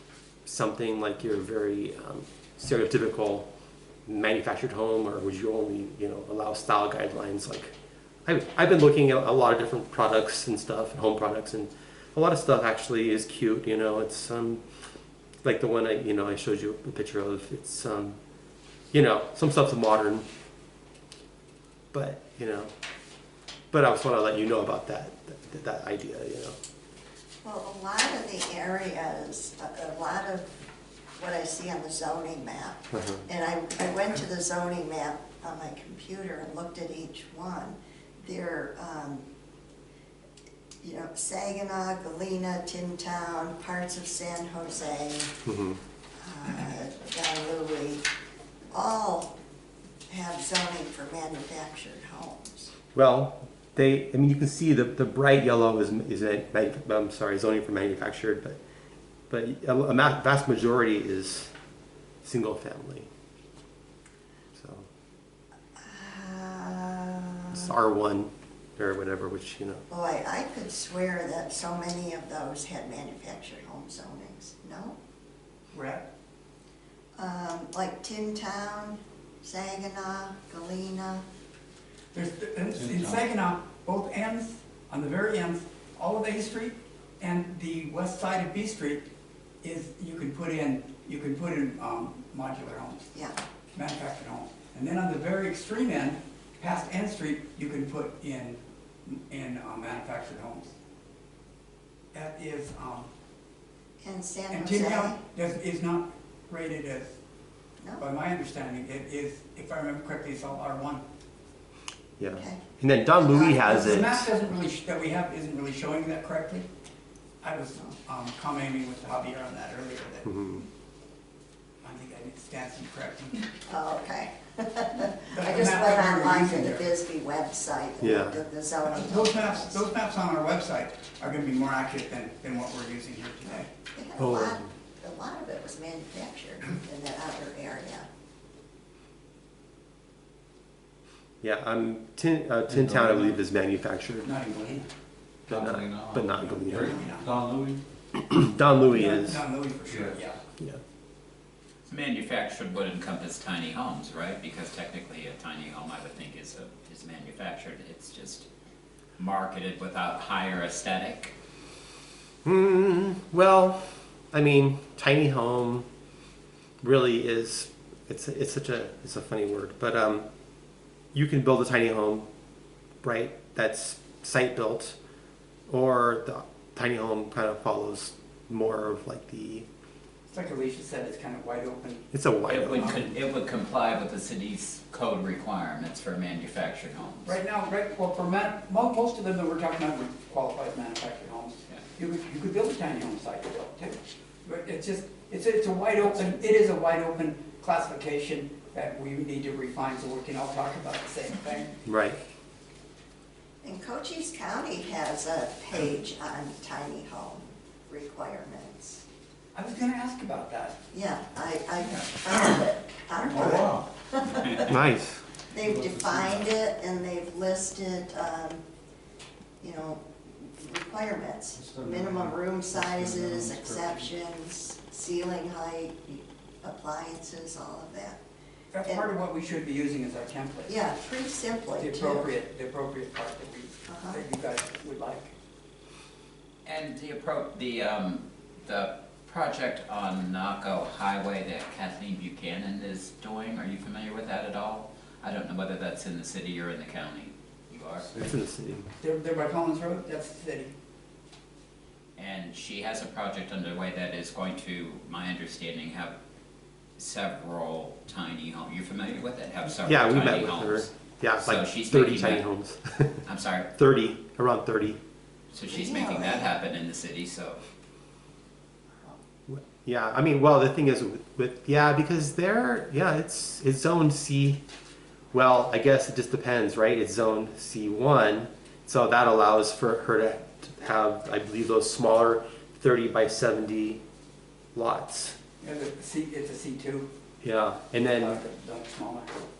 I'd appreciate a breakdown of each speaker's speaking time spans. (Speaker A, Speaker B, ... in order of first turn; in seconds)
Speaker A: 0.5-3.5, 4.1-7.7, 8.3-14.6, 15.4-18.2, 18.9-20.3, 21.9-22.7, 23.7-26.6, 32.9-33.2, 45.5-45.8, 53.0-58.6, 59.3-61.5, 62.2-63.1, 64.5-64.9, 67.5-69.8, 112.2-114.3, 120.3-120.6, 128.0-128.4, 134.2-134.6, 141.4-144.3, 145.5-147.0, 148.2-149.4, 162.4-165.9, 166.8-170.3, 171.1-172.3, 173.0-175.0, 175.7-179.7, 182.1-182.9, 201.9-202.2, 214.7-215.2, 248.2-248.9, 259.8-263.2, 263.8-265.0, 269.5-274.6, 275.3-284.0, 284.8-285.4, 287.4-288.4
Speaker B: 27.4-30.5, 31.2-39.3, 40.8-45.4, 46.2-48.0, 48.7-49.4, 50.1-52.7, 65.8-67.7, 69.9-75.0, 77.2-81.3, 93.1-93.4, 104.0-105.2, 107.8-108.1, 112.3-114.1, 123.7-129.8, 133.9-138.1, 203.6-209.0, 210.9-214.8, 215.5-218.6, 219.6-228.2, 230.7-232.3, 233.9-234.2, 265.7-266.6
Speaker C: 75.7-76.1, 82.1-89.1, 89.6-93.1, 93.7-100.8, 102.1-103.1, 104.5-107.2, 108.0-111.0, 113.6-116.7, 117.4-120.6, 121.8-123.5, 125.3-126.9, 129.0-133.7, 144.2-144.9, 146.9-147.3, 148.9-150.4, 180.3-182.1, 182.8-183.1, 187.2-201.8, 209.5-210.8, 211.8-212.2, 228.7-230.7, 231.8-235.3, 249.0-250.7, 285.6-287.1, 288.0-289.3
Speaker D: 82.7-83.3, 142.7-143.3, 145.5-147.8, 149.9-150.2, 213.4-213.9, 215.7-216.5, 221.6-224.0
Speaker E: 151.9-158.5, 159.2-161.3, 182.5-187.3, 236.7-248.1, 252.2-256.2, 257.0-262.4, 263.3-263.7, 265.5-267.6